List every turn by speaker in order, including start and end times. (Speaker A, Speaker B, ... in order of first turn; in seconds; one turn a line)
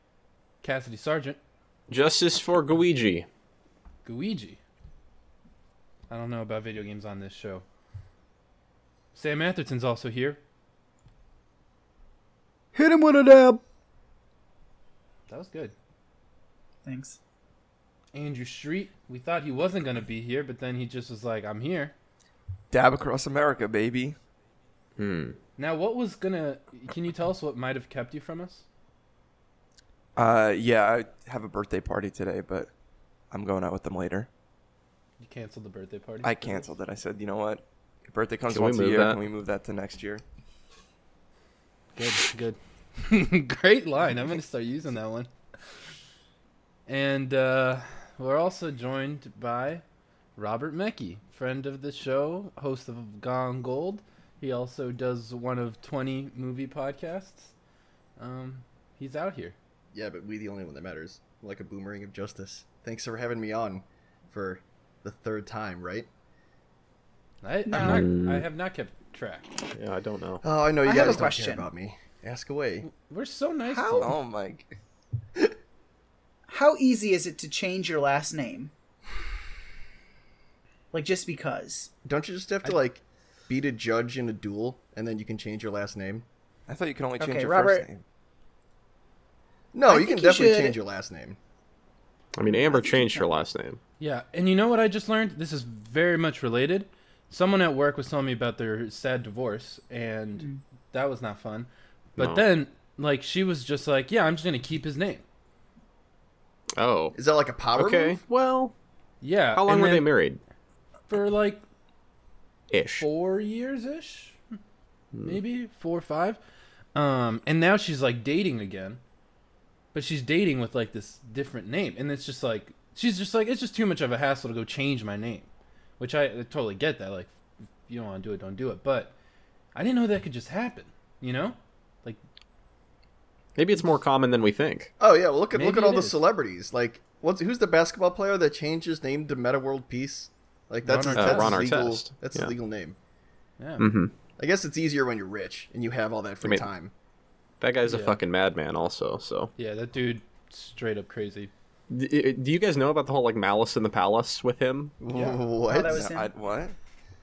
Speaker A: 0.6-1.4
Speaker B: 1.9-3.2
Speaker A: 4.0-4.6
Speaker A: 6.1-7.6
Speaker A: 9.1-10.4
Speaker A: 15.3-15.7
Speaker C: 16.8-17.2
Speaker A: 18.1-21.9
Speaker D: 22.7-24.1
Speaker B: 25.0-25.4
Speaker A: 25.6-28.6
Speaker D: 30.1-32.7
Speaker D: 33.3-34.3
Speaker A: 35.2-36.7
Speaker D: 36.2-40.2
Speaker B: 38.5-39.2
Speaker A: 42.0-45.3
Speaker A: 46.9-49.8
Speaker A: 50.4-57.5
Speaker A: 58.2-59.5
Speaker E: 59.9-66.1
Speaker A: 67.4-69.5
Speaker B: 67.7-68.5
Speaker C: 67.7-68.0
Speaker B: 69.7-70.4
Speaker E: 70.4-72.9
Speaker C: 70.8-71.7
Speaker A: 72.8-74.2
Speaker D: 73.7-74.7
Speaker C: 76.5-78.7
Speaker C: 80.9-81.9
Speaker E: 82.0-86.2
Speaker D: 86.7-88.0
Speaker C: 87.2-87.8
Speaker E: 89.7-91.4
Speaker C: 89.9-90.8
Speaker B: 92.3-93.8
Speaker C: 92.5-93.3
Speaker A: 94.0-105.2
Speaker B: 102.2-102.4
Speaker B: 106.8-107.2
Speaker E: 107.1-108.2
Speaker B: 107.7-108.7
Speaker A: 109.2-110.1
Speaker B: 109.5-110.4
Speaker A: 111.1-111.6
Speaker B: 112.7-113.0
Speaker A: 113.0-114.6
Speaker B: 115.1-115.4
Speaker A: 115.2-116.4
Speaker A: 116.9-119.0
Speaker A: 119.9-125.5
Speaker A: 126.0-127.3
Speaker A: 127.9-129.1
Speaker A: 129.7-132.2
Speaker B: 133.6-134.9
Speaker E: 135.0-142.9
Speaker A: 135.5-136.2
Speaker A: 140.8-141.7
Speaker B: 141.1-142.5
Speaker A: 143.6-143.9
Speaker B: 143.8-144.1
Speaker E: 144.4-146.9
Speaker B: 147.6-149.5
Speaker A: 147.8-148.2
Speaker A: 149.6-151.5
Speaker B: 151.9-154.9
Speaker E: 155.0-156.0
Speaker C: 155.7-156.3
Speaker D: 155.8-156.7